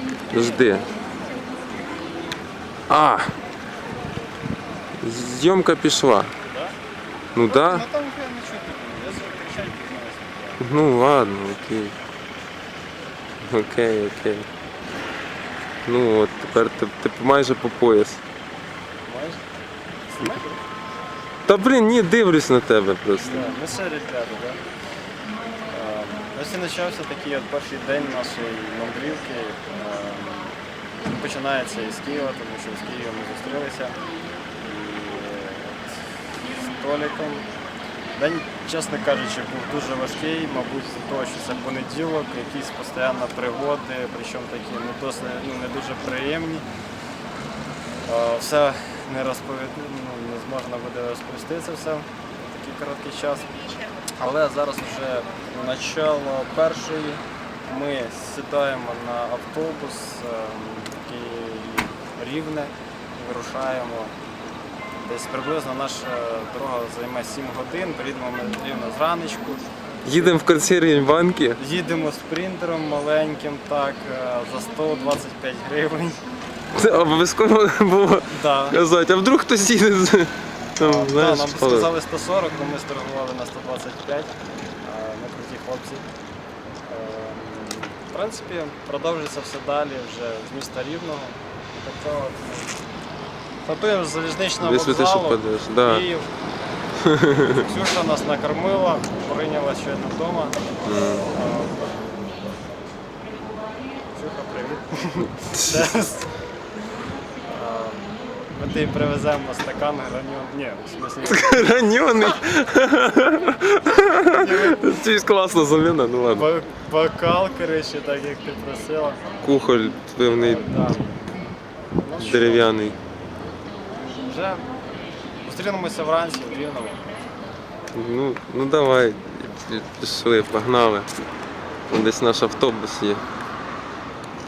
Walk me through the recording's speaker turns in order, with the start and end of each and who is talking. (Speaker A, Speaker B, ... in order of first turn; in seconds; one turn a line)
Speaker A: 0.3-0.9
Speaker A: 2.9-3.3
Speaker A: 5.0-6.3
Speaker B: 6.5-6.8
Speaker A: 7.3-7.8
Speaker B: 7.5-10.6
Speaker A: 10.6-11.9
Speaker A: 13.5-14.5
Speaker A: 15.8-18.2
Speaker B: 19.1-19.4
Speaker B: 20.1-20.6
Speaker A: 21.5-23.5
Speaker B: 23.2-24.6
Speaker B: 25.7-34.0
Speaker B: 34.6-37.5
Speaker B: 38.1-46.6
Speaker B: 48.0-53.6
Speaker B: 54.2-64.2
Speaker B: 65.0-70.4
Speaker A: 70.0-71.6
Speaker B: 71.6-76.2
Speaker A: 76.7-81.9
Speaker B: 78.3-78.8
Speaker B: 80.8-86.1
Speaker B: 86.9-92.8
Speaker B: 93.7-96.3
Speaker A: 94.6-96.1
Speaker A: 97.0-97.6
Speaker B: 97.5-100.6
Speaker A: 100.8-101.3
Speaker B: 101.3-102.1
Speaker B: 104.1-106.3
Speaker A: 105.5-105.8
Speaker B: 107.5-111.7
Speaker A: 111.3-116.5
Speaker B: 114.3-114.9
Speaker B: 116.3-119.2
Speaker A: 119.4-120.6
Speaker B: 120.3-121.1
Speaker B: 122.0-122.9
Speaker A: 122.2-123.0
Speaker B: 124.2-124.6
Speaker B: 125.4-127.2
Speaker A: 127.9-131.1
Speaker A: 131.9-133.2